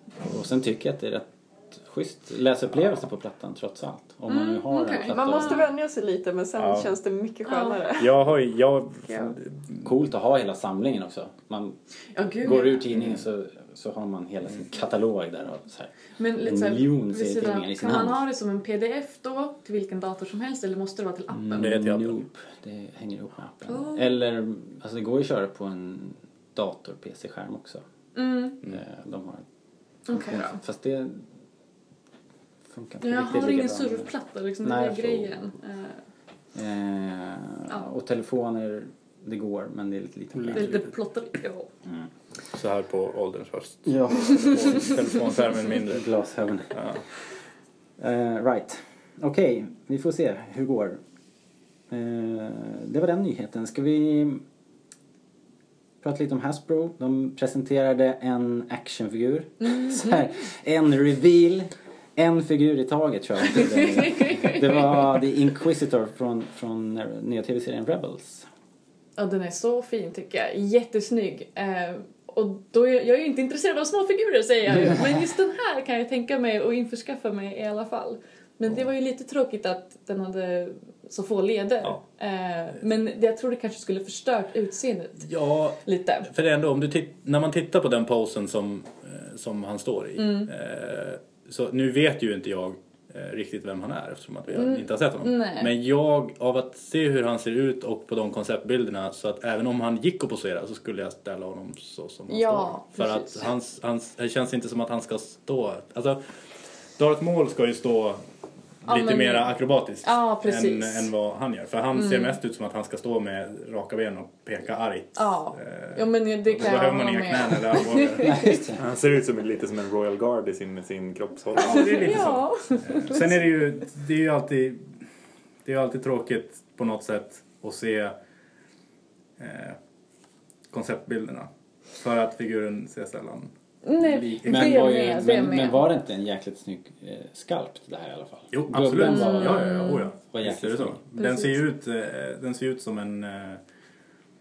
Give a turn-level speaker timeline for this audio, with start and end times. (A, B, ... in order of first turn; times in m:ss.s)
0:00.2-0:05.6 A
0:04.3-0:05.6 B
0:05.1-0:08.1 C
0:06.6-0:06.9 D
0:07.4-0:07.8 B
0:08.0-0:09.9 D
0:09.1-0:09.4 B
0:09.8-0:11.8 A
0:12.1-0:12.8 B
0:12.4-0:18.2 A
0:12.9-0:13.2 D
0:16.2-0:21.8 B
0:21.3-0:27.8 A
0:21.6-0:22.2 D
0:23.6-0:24.2 B
0:28.1-0:28.6 B
0:28.6-0:29.4 A
0:30.1-0:30.6 B
0:30.1-0:31.3 A
0:32.7-0:34.1 A
0:33.0-0:36.0 B
0:34.6-0:35.4 A
0:36.5-0:40.8 A
0:40.3-0:40.9 D
0:40.5-0:41.7 B
0:42.5-0:46.0 D
0:43.8-0:45.0 A
0:45.9-0:46.8 A
0:46.7-0:47.0 D
0:48.0-0:51.0 A
0:51.9-0:54.4 A
0:56.0-1:08.5 A
0:59.6-1:00.3 B
1:04.0-1:04.6 B
1:09.2-1:25.3 B
1:25.2-1:46.4 D
1:25.8-1:26.3 B
1:30.2-1:30.5 B
1:34.5-1:35.7 B
1:42.3-1:43.4 B
1:47.0-1:48.2 D
1:48.8-1:58.3 D
1:48.9-1:51.1 B
1:51.9-1:52.4 B
1:55.2-1:58.6 B
1:58.2-1:58.8 A
1:58.8-2:02.3 E
2:01.6-2:05.0 D
2:01.6-2:03.4 B
2:05.6-2:08.2 D
2:09.4-2:09.8 D
2:10.7-2:15.0 D
2:13.8-2:15.9 B
2:14.4-2:21.0 A
2:18.5-2:23.6 D
2:19.0-2:20.1 B
2:21.2-2:21.6 B